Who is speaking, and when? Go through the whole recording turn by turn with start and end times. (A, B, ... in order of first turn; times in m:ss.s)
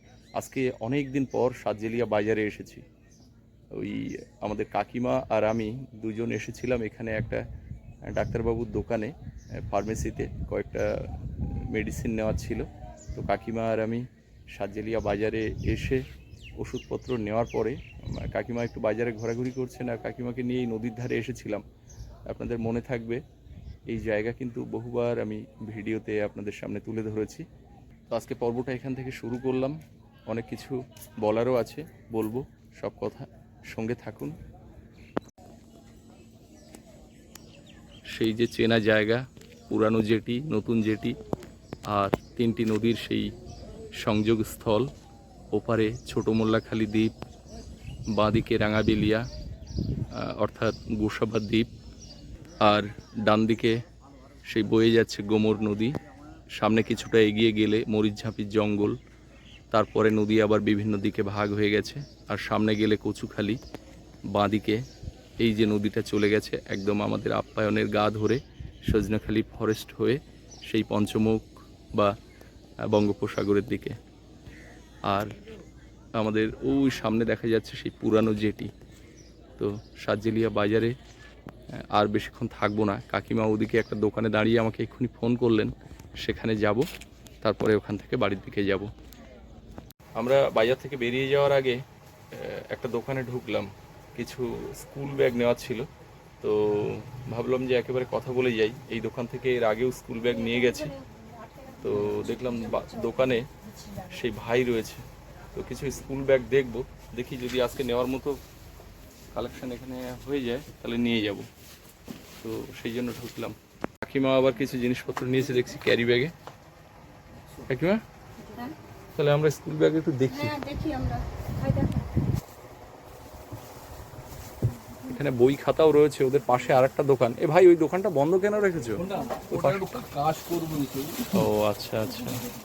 0:00.4-0:02.8 A
0:03.7-0:07.4 A
0:08.1-0:09.1 A
0:09.7-0:16.0 A
0:16.6-0:21.6 A
0:22.3-0:23.2 A
0:23.9-0:27.4 A
0:28.1-0:34.4 A
0:38.1-0:41.2 A
0:41.9-0:43.3 A
0:44.0-0:44.9 A
0:45.5-0:47.1 A
0:48.1-0:49.3 A
0:50.1-0:51.7 A
0:52.6-0:53.8 A
0:54.5-0:55.9 A
0:56.6-0:59.0 A
0:59.7-1:03.6 A
1:04.3-1:04.8 A
1:05.4-1:12.1 A
1:12.9-1:14.0 A
1:16.2-1:18.7 A
1:19.6-1:20.9 A
1:21.8-1:26.8 A
1:27.4-1:28.9 A
1:30.2-1:31.8 A
1:32.3-1:35.9 A
1:36.4-1:40.9 A
1:41.8-1:43.5 A
1:44.0-1:45.0 A
1:45.5-1:48.4 A
1:49.3-1:51.5 A
1:52.4-1:56.3 A
1:57.7-1:58.0 A
1:58.4-1:58.7 B
1:59.1-2:00.5 A
2:00.3-2:02.1 B
2:05.1-2:10.0 A
2:09.0-2:11.3 C
2:11.4-2:12.4 A